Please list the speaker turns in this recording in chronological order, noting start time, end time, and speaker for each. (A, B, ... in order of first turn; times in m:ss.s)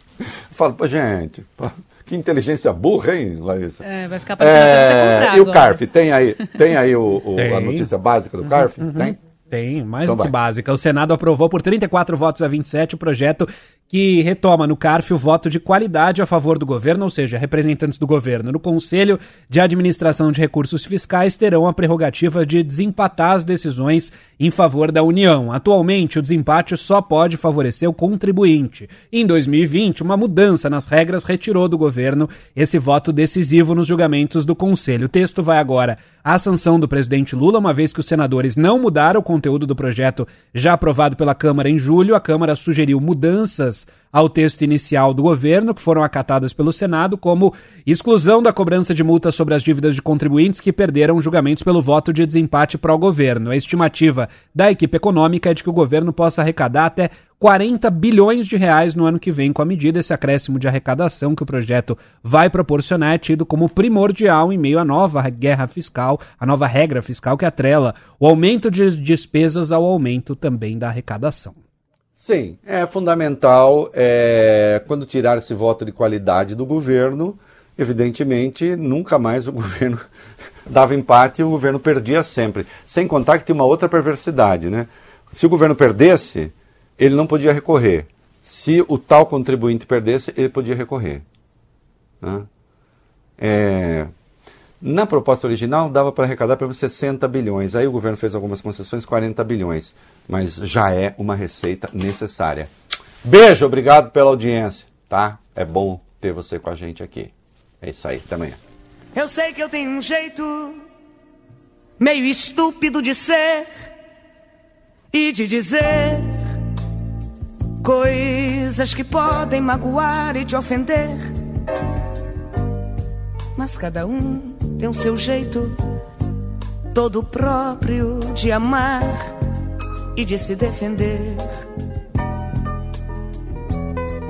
0:00.2-0:03.8 A
0:03.8-0:05.8 B
0:04.4-0:09.2 A
0:07.4-0:07.9 C
0:08.5-1:11.6 C
0:10.0-0:10.4 A
1:12.2-1:20.0 A
1:20.7-1:31.2 A
1:32.2-1:32.5 A
1:33.4-1:34.1 A
1:34.8-1:42.7 A
1:43.2-1:48.6 A
1:49.2-1:50.8 D
1:52.0-1:53.7 D
1:55.1-1:56.4 D
1:57.8-2:01.3 D
2:03.6-2:05.8 D
2:06.9-2:09.3 D
2:10.2-2:11.5 D